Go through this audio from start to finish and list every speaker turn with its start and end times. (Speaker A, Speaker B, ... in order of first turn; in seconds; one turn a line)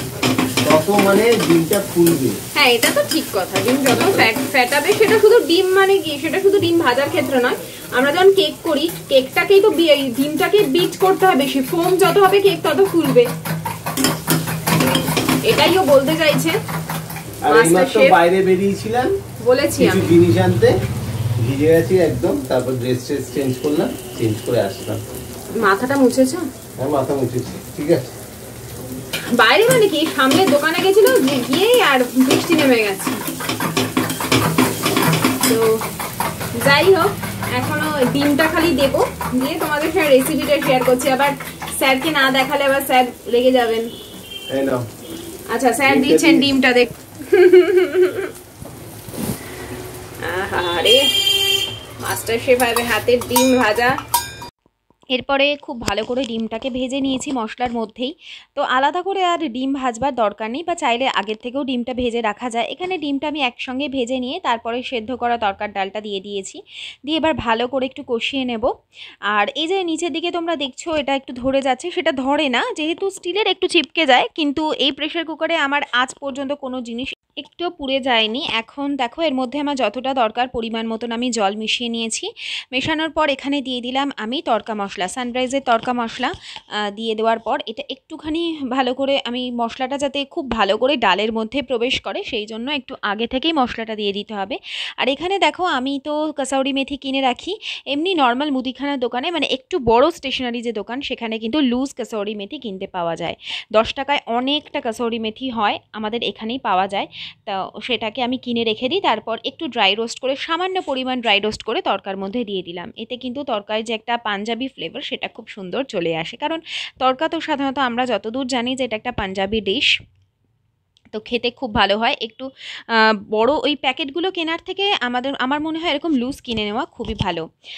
Speaker A: 0.6-2.4
Speaker B: 2.5-13.3
Speaker A: 4.0-4.2
Speaker B: 15.4-16.6
Speaker A: 17.4-19.1
Speaker B: 17.5-18.2
Speaker B: 19.4-20.1
Speaker A: 19.8-20.8
Speaker A: 21.4-25.0
Speaker B: 25.6-26.4
Speaker A: 26.8-28.1
Speaker B: 29.4-33.2
Speaker B: 35.4-35.7
Speaker B: 36.6-43.9
Speaker A: 44.5-44.8
Speaker B: 45.5-48.3
Speaker A: 45.8-46.5
Speaker B: 50.2-51.0
Speaker B: 52.0-53.9
Speaker B: 55.1-68.7
Speaker B: 69.3-86.3
Speaker B: 86.9-119.9
Speaker B: 121.1-127.5